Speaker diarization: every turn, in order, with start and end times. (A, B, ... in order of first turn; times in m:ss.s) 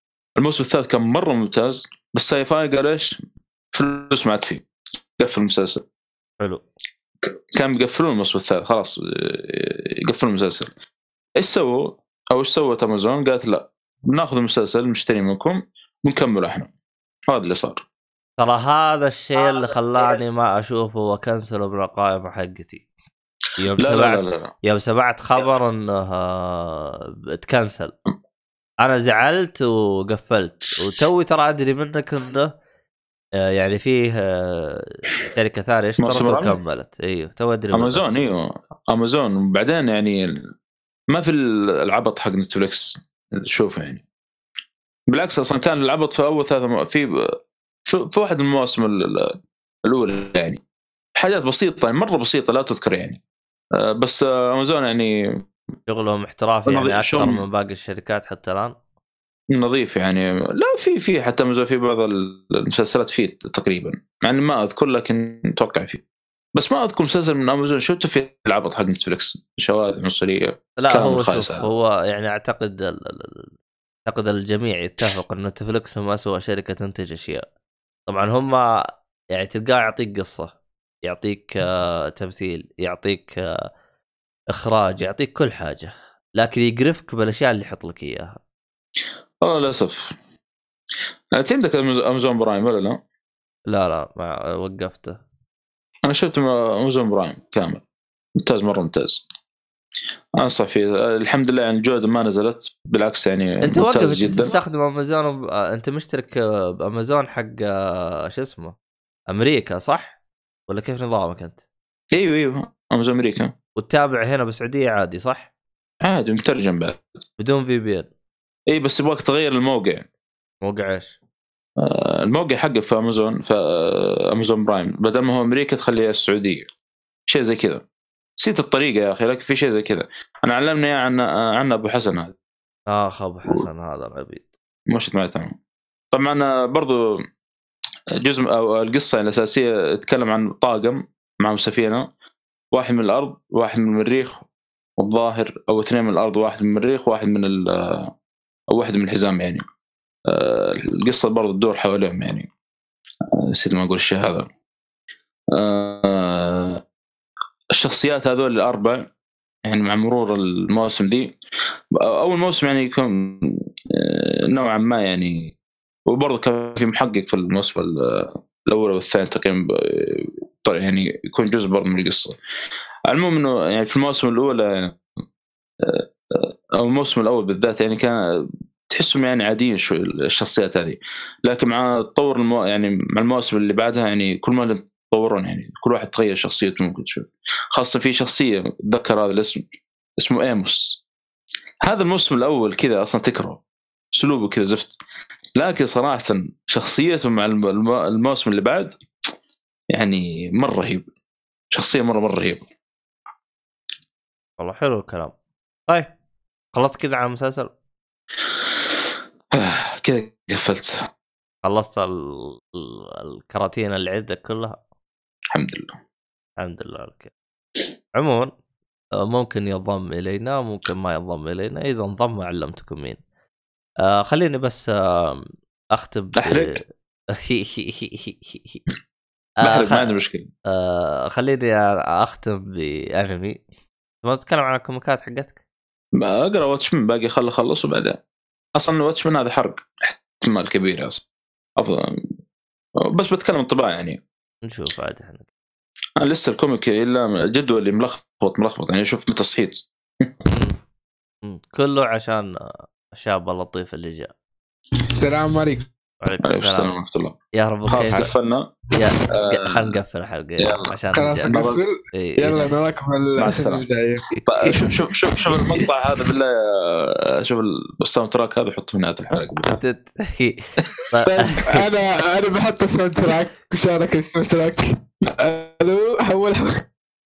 0:00.4-0:03.2 A
0:03.7-0:04.6 A
0:05.2-0:05.8 A
0:07.6-0:10.7 A
0:11.4-0:16.7 A
0:17.3-0:17.8 A
0:18.4-0:22.8 B
0:23.6-0:27.9 B
0:23.8-0:24.5 A
0:28.8-0:32.5 B
0:33.5-0:38.0 B
0:36.0-0:36.5 A
0:37.7-0:40.4 A
0:41.1-0:44.0 A
0:45.1-0:47.1 A
0:47.9-0:49.3 A
0:49.9-0:50.6 A
0:51.2-0:53.2 A
0:53.8-0:55.2 A
0:55.9-0:58.7 B
0:56.7-0:57.4 A
0:59.5-1:06.0 A
1:06.6-1:11.6 A
1:10.8-1:13.5 B
1:14.1-1:17.4 B
1:18.1-1:18.6 B
1:19.3-1:23.4 B
1:24.5-1:28.4 B
1:29.4-1:30.1 A
1:31.4-1:33.0 A
1:33.7-1:35.2 B
1:36.0-1:37.8 A
1:38.4-1:39.2 A
1:40.4-1:44.6 A
1:43.6-1:47.7 B
1:48.3-1:48.7 B
1:49.3-1:50.2 B
1:50.7-1:51.6 B
1:52.1-1:53.5 A
1:53.8-1:55.5 B
1:56.0-1:57.0 A
1:57.4-1:58.1 B
1:58.7-2:00.0 A
2:00.6-2:01.2 B
2:01.8-2:06.6 A
2:07.3-2:07.8 A
2:08.4-2:12.3 A
2:12.9-2:14.5 B
2:14.9-2:15.5 A
2:16.1-2:17.1 A
2:18.2-2:22.0 A
2:22.7-2:24.4 A
2:25.0-2:28.1 A
2:28.7-2:29.6 A
2:30.3-2:32.5 A
2:33.5-2:34.4 A
2:35.5-2:36.8 A
2:37.7-2:39.0 A
2:39.7-2:41.3 A
2:41.9-2:45.5 A
2:46.1-2:52.3 A
2:53.1-2:55.0 A
2:55.8-2:58.2 A
2:58.9-3:09.6 A
3:10.2-3:11.0 A
3:11.8-3:13.6 A
3:14.1-3:15.0 A
3:15.6-3:18.9 A
3:19.9-3:21.0 A
3:21.7-3:22.6 A
3:24.6-3:25.3 B
3:26.7-3:27.7 B
3:29.5-3:31.0 A
3:31.6-3:34.8 B
3:35.5-3:35.9 A
3:36.6-3:37.3 B
3:38.1-3:38.5 B
3:39.2-3:43.2 B
3:44.0-3:46.7 B
3:46.4-3:46.8 A
3:47.3-3:48.8 B
3:49.6-3:50.5 A
3:49.6-3:50.1 B
3:50.7-3:53.6 B
3:54.2-3:55.5 B
3:56.2-3:58.2 A
3:58.8-4:01.2 A
4:01.8-4:02.1 A
4:03.0-4:04.2 A
4:04.6-4:05.4 B
4:06.2-4:10.3 A
4:10.5-4:10.7 B
4:11.4-4:12.5 B
4:13.1-4:14.3 B
4:15.1-4:15.9 C
4:16.2-4:16.9 B
4:16.4-4:17.4 A
4:17.6-4:18.3 B
4:18.0-4:18.7 A
4:19.0-4:21.6 B
4:19.4-4:19.9 A
4:20.6-4:20.9 A
4:21.1-4:24.2 C
4:21.5-4:21.8 A
4:22.1-4:22.7 B
4:23.4-4:23.8 A
4:24.3-4:24.7 B
4:24.4-4:29.8 A
4:25.6-4:25.8 B
4:29.7-4:30.6 B
4:31.1-4:31.8 B
4:31.3-4:36.8 C